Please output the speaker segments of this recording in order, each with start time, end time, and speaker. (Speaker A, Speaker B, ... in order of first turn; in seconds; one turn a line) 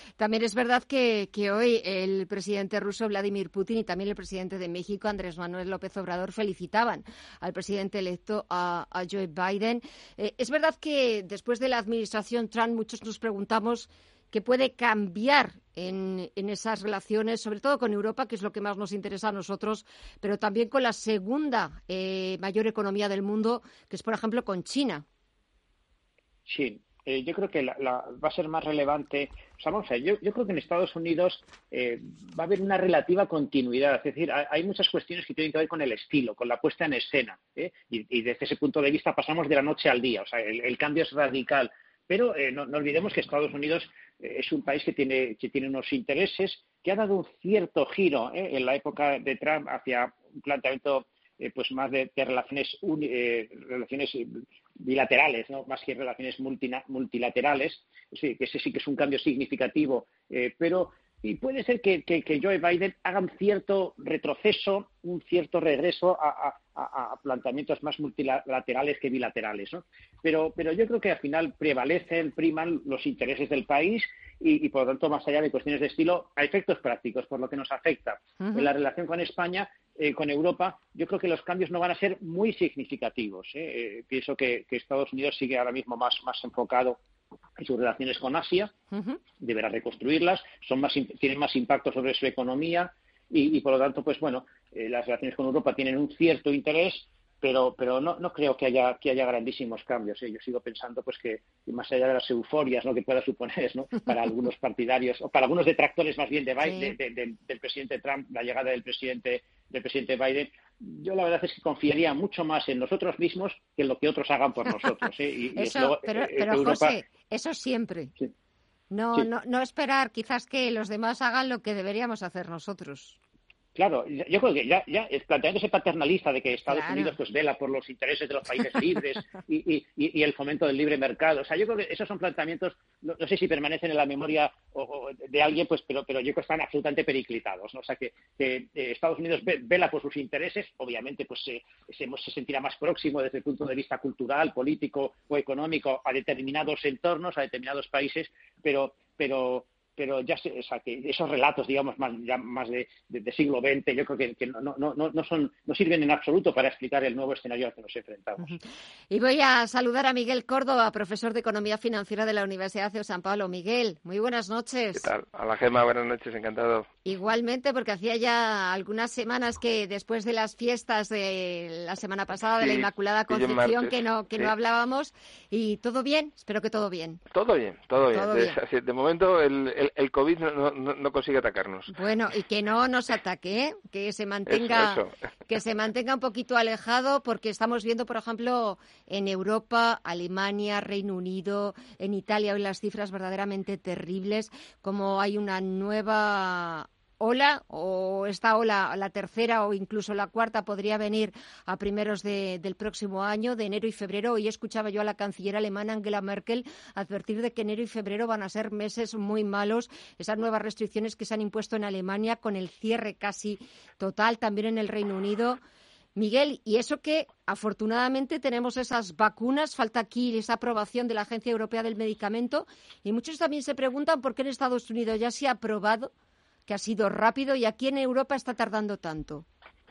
Speaker A: 0.2-25.0
Speaker B: 26.4-87.0
Speaker A: 78.4-78.7
Speaker B: 87.6-88.7
Speaker A: 88.9-89.2
Speaker B: 89.4-117.0
Speaker A: 106.7-106.9
Speaker A: 115.5-118.1
Speaker A: 118.9-123.2
Speaker B: 123.7-158.5
Speaker A: 126.7-127.1
Speaker A: 159.1-165.0
Speaker C: 164.9-166.9
Speaker A: 167.0-177.2
Speaker C: 172.6-174.5
Speaker C: 177.3-181.9
Speaker A: 178.1-178.5
Speaker A: 181.9-215.6
Speaker C: 184.5-185.1
Speaker A: 216.2-226.1
Speaker A: 226.7-229.4